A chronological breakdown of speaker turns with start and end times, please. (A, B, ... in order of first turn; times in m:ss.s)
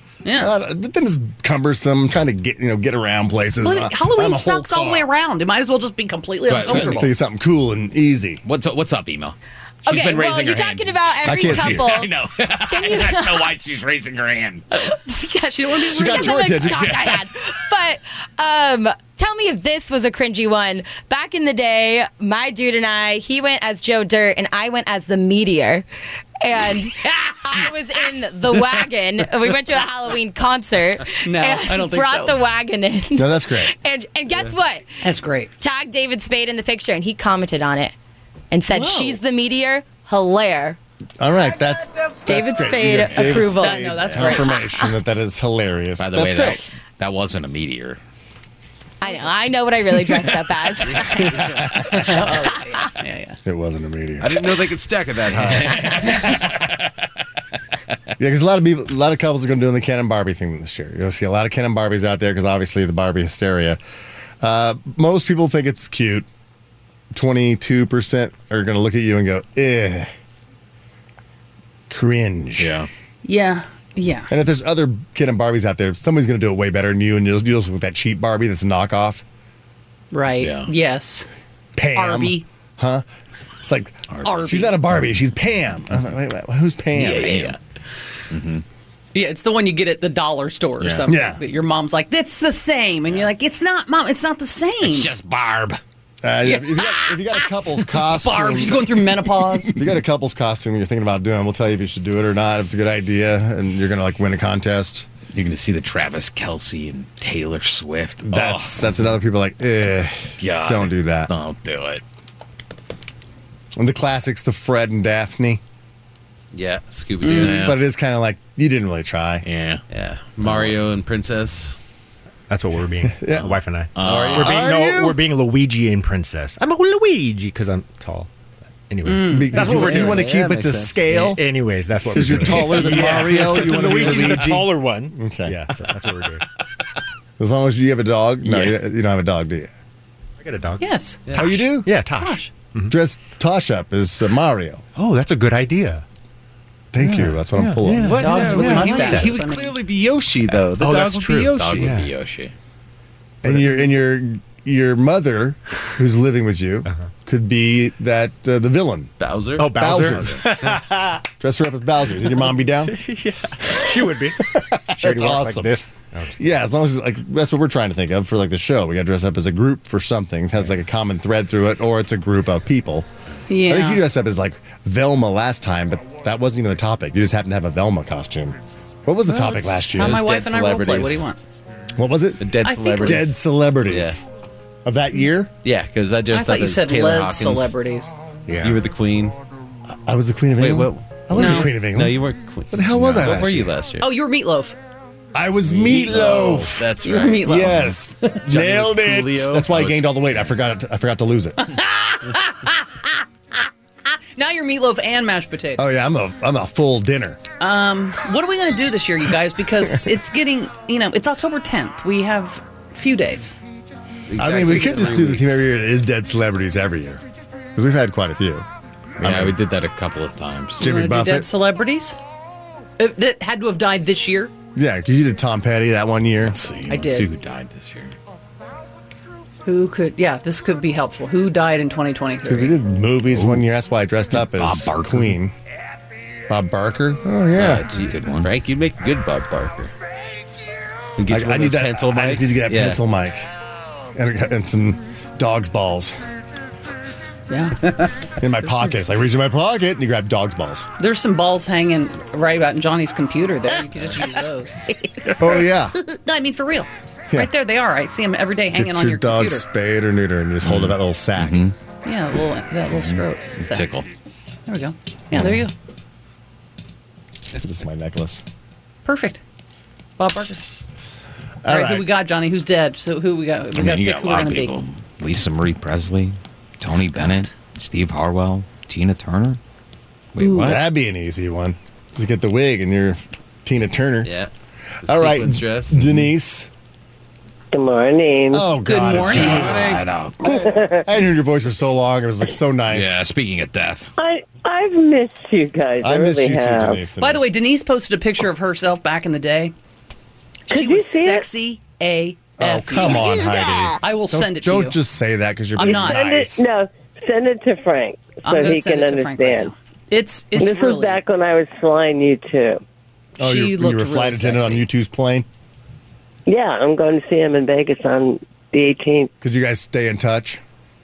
0:00.2-0:00.5 A
0:00.3-0:05.1 B
0:03.6-0:07.1 A
0:06.5-0:07.0 C
0:06.7-0:08.4 B
0:08.4-0:14.6 C
0:09.8-0:12.1 D
0:11.2-0:12.0 B
0:12.7-0:13.5 D
0:14.7-0:16.7 A
0:14.9-0:25.8 D
0:15.9-0:16.8 B
0:16.7-0:17.2 C
0:26.4-0:34.8 D
0:31.2-0:32.4 A
0:33.2-0:33.7 B
0:35.0-0:35.5 A
0:35.6-0:37.9 D
0:38.5-0:40.8 D
0:38.7-0:39.2 A
0:41.2-0:46.6 B
0:42.2-0:44.9 D
0:42.9-0:44.5 A
0:46.0-0:48.0 C
0:49.0-0:51.3 D
0:50.9-0:51.7 E
0:51.1-0:52.2 B
0:51.8-0:53.4 A
0:53.4-0:54.6 B
0:54.2-0:56.0 E
0:55.4-0:56.8 C
0:58.2-1:03.8 B
1:04.4-1:06.3 B
1:07.1-1:10.1 B
1:11.9-1:12.8 B
1:12.6-1:12.9 C
1:13.2-1:14.3 A
1:14.3-1:19.2 B
1:20.1-1:21.3 A
1:20.4-1:20.7 C
1:21.8-1:23.0 B
1:21.9-1:22.4 A
1:23.6-1:27.6 B
1:24.2-1:24.7 A
1:26.9-1:27.6 C
1:28.3-1:28.6 C
1:29.1-1:35.1 A
1:30.8-1:31.0 C
1:31.1-1:31.4 B
1:34.8-1:35.8 C
1:36.2-1:38.9 B
1:36.4-1:37.5 A
1:38.1-1:39.7 A
1:39.7-1:45.1 B
1:45.3-1:49.0 C
1:48.2-1:51.3 B
1:50.4-1:52.0 C
1:53.8-1:55.6 B
1:56.5-1:57.7 E
1:57.3-1:57.8 C
1:57.4-1:59.4 B
1:59.4-1:59.8 C
1:59.9-2:01.8 E
2:00.4-2:00.8 C
2:02.5-2:08.3 F
2:03.1-2:03.5 B
2:04.0-2:04.7 C
2:04.0-2:04.5 E
2:04.4-2:05.2 B
2:08.9-2:10.4 F
2:09.0-2:09.7 A
2:09.3-2:11.4 B
2:09.6-2:11.0 E
2:11.0-2:16.4 F
2:12.1-2:15.6 B
2:17.4-2:19.7 B
2:20.4-2:23.0 F
2:20.8-2:21.4 A
2:21.2-2:21.6 E
2:21.3-2:21.9 B
2:22.2-2:22.5 A
2:22.9-2:24.8 B
2:24.9-2:26.0 F
2:26.9-2:28.4 B
2:27.0-2:29.4 F
2:28.0-2:32.0 E
2:28.1-2:29.8 A
2:30.5-2:32.1 F
2:31.5-2:32.5 C
2:33.4-2:39.1 B
2:33.4-2:33.8 F
2:39.2-2:39.9 E
2:39.6-2:41.2 F
2:39.7-2:40.5 B
2:41.4-2:43.0 B
2:42.1-2:46.6 F
2:43.8-2:53.1 B
2:53.5-2:54.0 A
2:53.6-3:00.2 B
2:59.3-3:01.4 A
2:59.9-3:01.3 E
3:02.0-3:04.2 B
3:02.4-3:04.2 E
3:02.6-3:03.3 A
3:04.8-3:05.5 B
3:05.6-3:07.7 E
3:06.3-3:08.1 A
3:08.5-3:08.8 F
3:08.6-3:09.4 E
3:09.9-3:13.7 B
3:10.6-3:14.1 E
3:11.3-3:11.7 A
3:14.0-3:14.8 A
3:15.3-3:16.9 B
3:15.7-3:17.6 E
3:17.0-3:17.9 A
3:17.4-3:21.6 B
3:18.3-3:20.1 E
3:21.6-3:22.8 A
3:24.3-3:25.8 A
3:25.8-3:27.4 B
3:27.6-3:33.6 A
3:34.3-3:35.6 E
3:34.4-3:37.2 B
3:34.6-3:35.1 A
3:37.7-3:38.7 B
3:39.2-3:39.6 B
3:39.2-3:40.9 C
3:40.8-3:41.5 B
3:40.8-3:42.2 A
3:43.0-3:44.5 A
3:44.8-3:46.6 B
3:46.4-3:48.1 C
3:46.9-3:47.3 A
3:49.6-3:52.8 A
3:52.4-3:55.5 B
3:53.3-3:53.6 C
3:54.4-3:55.4 C
3:56.5-3:57.8 B
3:57.6-3:59.9 E
3:57.6-3:58.5 C
4:01.2-4:03.0 E
4:01.3-4:03.5 B
4:04.1-4:06.2 B
4:07.5-4:08.9 A
4:08.4-4:10.9 B
4:11.0-4:14.8 A
4:15.4-4:16.0 B
4:16.0-4:19.6 A
4:18.7-4:21.6 B
4:20.6-4:21.7 C
4:22.0-4:23.9 A
4:22.9-4:24.0 C
4:24.7-4:25.7 A
4:27.6-4:28.4 B
4:29.0-4:29.4 A
4:30.2-4:30.6 A
4:31.6-4:32.1 B
4:31.7-4:34.8 A
4:33.8-4:39.6 C
4:37.1-4:37.5 A
4:40.3-4:40.8 C
4:40.4-4:40.7 A
4:40.6-4:44.3 B
4:44.2-4:44.5 E
4:45.0-4:46.2 E
4:45.0-4:46.7 B
4:47.7-4:48.7 G
4:48.5-4:49.8 B
4:48.8-4:49.7 A
4:49.2-4:50.7 C
4:49.4-4:50.0 E
4:50.4-4:51.0 G
4:50.4-4:53.2 B
4:52.9-4:54.1 C
4:54.2-4:57.0 G
4:56.0-4:57.5 B
4:57.2-4:59.7 A
5:00.7-5:03.4 A
5:00.7-5:01.5 G
5:02.6-5:06.7 B
5:04.0-5:05.0 A
5:05.8-5:06.2 A
5:05.8-5:09.7 G
5:08.4-5:11.2 A
5:10.6-5:12.8 G
5:13.4-5:14.8 A
5:13.4-5:15.4 B
5:16.4-5:19.3 G
5:19.4-5:20.6 B